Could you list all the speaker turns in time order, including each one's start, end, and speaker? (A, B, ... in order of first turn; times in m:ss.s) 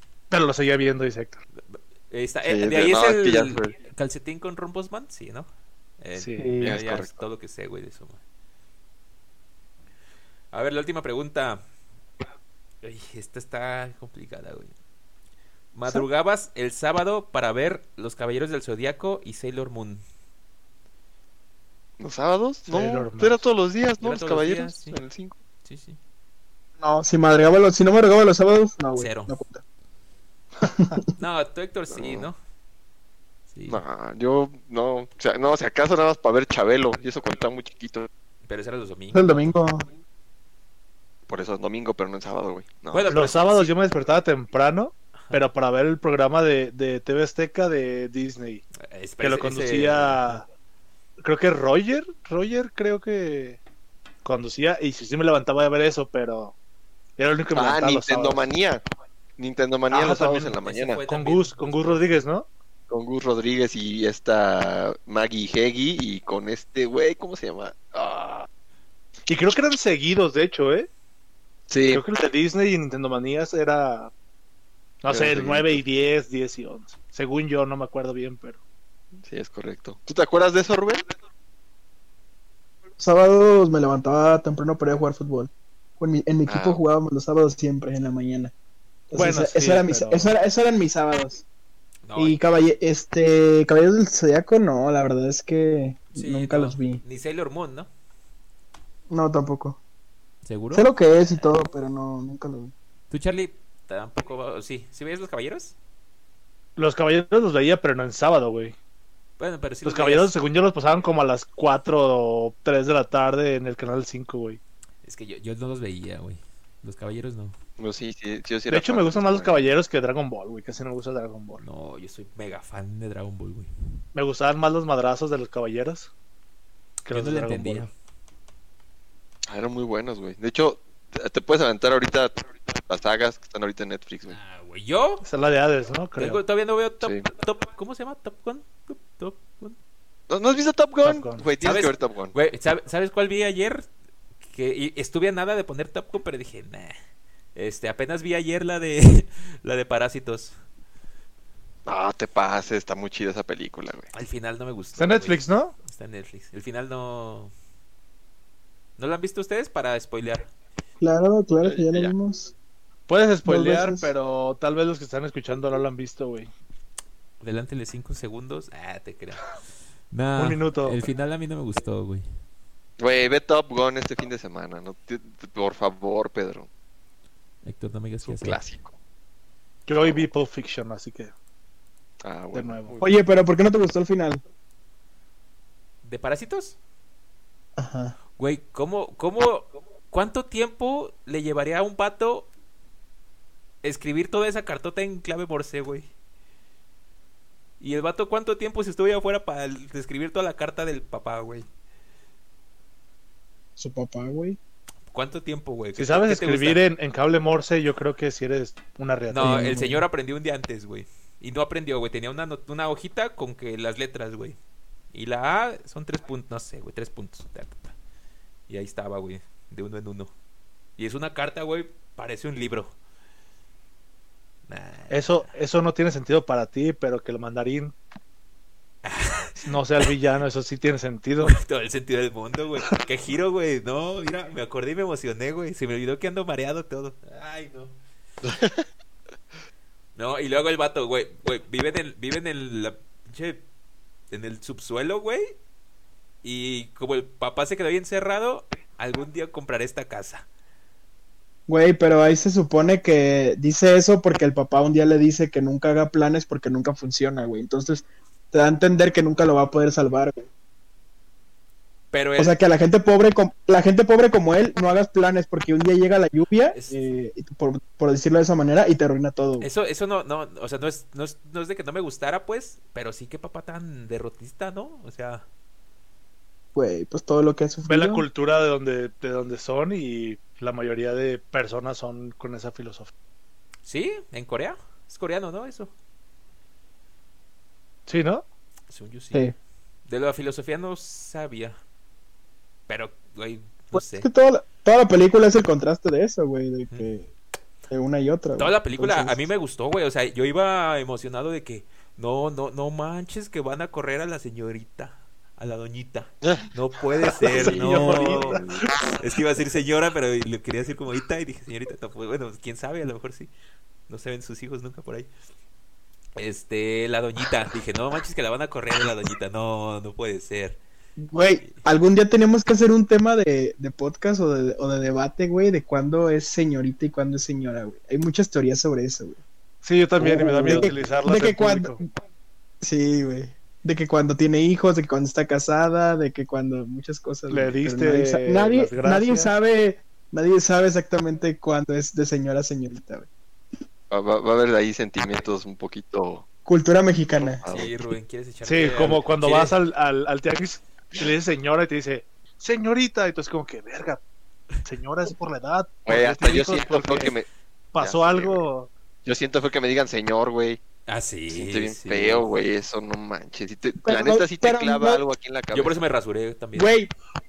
0:00.3-0:01.4 A
0:01.7-0:05.5 B
0:02.4-0:03.8 C
0:06.0-0:08.2 B
0:06.2-0:06.6 A
0:06.4-0:06.8 D
0:06.6-0:07.2 C
0:10.5-0:11.6 B
0:12.8-0:14.7 B
0:15.7-0:20.0 B
0:22.0-0:25.4 C
0:22.7-0:23.4 A
0:24.0-0:25.0 B
0:25.6-0:26.0 B
0:26.8-0:29.6 D
0:29.0-0:29.4 B
0:30.6-0:31.0 D
0:31.2-0:32.4 B
0:31.9-0:32.3 C
0:33.5-0:33.8 B
0:33.7-0:38.1 C
0:38.5-0:39.6 B
0:39.1-0:39.9 D
0:41.3-0:43.3 C
0:42.9-0:43.7 B
0:43.1-0:48.6 A
0:48.8-0:50.4 B
0:49.2-0:50.4 A
0:51.2-0:53.6 A
0:54.2-0:56.6 A
0:57.2-0:58.5 A
0:57.5-0:58.8 C
0:59.4-1:01.0 C
0:59.9-1:00.6 A
1:00.6-1:02.1 B
1:01.1-1:02.5 A
1:02.9-1:08.5 C
1:09.3-1:10.9 A
1:11.7-1:12.0 C
1:11.9-1:14.1 A
1:15.0-1:18.6 A
1:15.1-1:15.8 C
1:19.2-1:21.0 C
1:23.0-1:28.5 D
1:26.5-1:26.8 C
1:29.1-1:31.4 D
1:29.2-1:30.3 A
1:32.1-1:32.4 B
1:32.2-1:37.0 D
1:36.1-1:37.9 B
1:39.1-1:39.8 D
1:40.4-1:40.9 B
1:40.7-1:42.7 D
1:43.1-1:45.8 B
1:46.8-1:48.8 A
1:49.4-1:50.3 B
1:49.8-1:54.6 A
1:55.0-1:57.6 B
1:57.8-1:59.7 C
1:58.7-2:01.6 A
2:01.6-2:03.7 B
2:04.1-2:06.1 A
2:07.0-2:07.9 A
2:07.1-2:07.9 B
2:09.5-2:12.3 C
2:12.9-2:14.4 C
2:14.3-2:15.3 B
2:15.2-2:16.4 A
2:16.2-2:19.8 B
2:20.3-2:22.4 C
2:21.0-2:21.5 A
2:21.6-2:23.9 B
2:24.4-2:27.0 B
2:27.6-2:30.6 B
2:31.9-2:34.1 C
2:34.1-2:37.5 B
2:35.0-2:35.7 A
2:39.0-2:40.5 B
2:41.0-2:42.5 D
2:41.6-2:42.1 C
2:43.1-2:46.5 A
2:43.4-2:44.1 D
2:47.4-2:49.6 B
2:50.1-2:52.2 B
2:50.4-2:51.0 A
2:53.0-2:56.7 C
2:57.6-2:58.6 B
2:58.3-2:59.0 C
2:59.9-3:01.3 A
3:02.2-3:03.2 C
3:02.5-3:03.0 A
3:03.0-3:04.4 D
3:06.0-3:06.8 B
3:07.8-3:08.2 D
3:08.4-3:12.5 B
3:13.8-3:16.1 B
3:17.8-3:21.7 B
3:23.8-3:24.6 D
3:25.1-3:26.8 B
3:26.0-3:29.8 A
3:29.3-3:34.6 B
3:29.4-3:30.0 D
3:35.1-3:38.0 B
3:38.7-3:40.3 B
3:41.0-3:43.0 B
3:44.7-3:45.5 B
3:45.1-3:47.9 A
3:49.0-3:50.1 B
3:49.6-3:51.6 A
3:51.4-3:58.0 B
3:58.5-3:58.8 C
4:00.2-4:03.6 B
4:04.3-4:05.5 B
4:06.4-4:10.5 B
4:11.7-4:20.5 D
4:22.1-4:22.6 B
4:22.4-4:29.7 D
4:26.7-4:27.1 B
4:29.6-4:35.4 B
4:36.8-4:38.3 D
4:37.9-4:43.1 A
4:43.8-4:45.9 B
4:48.1-4:48.4 A
4:48.9-4:49.5 B
4:50.1-4:51.8 B
4:52.9-4:54.3 B
4:53.9-4:57.3 D
4:56.9-4:57.2 B
4:57.9-4:59.4 D
4:58.6-5:08.6 B
5:07.4-5:08.8 A
5:07.4-5:08.8 C
5:09.2-5:13.5 B
5:14.1-5:15.3 B
5:16.4-5:20.8 B
5:21.2-5:29.4 D
5:29.8-5:32.0 A
5:30.2-5:32.1 D
5:32.8-5:43.3 D
5:37.5-5:39.5 A
5:44.1-5:46.4 C
5:46.7-5:47.6 D
5:47.4-5:48.0 C
5:47.7-5:49.8 B
5:48.6-5:54.2 A
5:54.8-5:57.4 A
5:56.1-5:57.5 C
5:57.9-5:58.9 A
5:58.0-5:58.7 C
5:59.2-6:00.8 C
6:01.1-6:02.5 B
6:01.5-6:06.0 C
6:04.0-6:05.2 D
6:05.7-6:06.9 B
6:06.8-6:07.1 D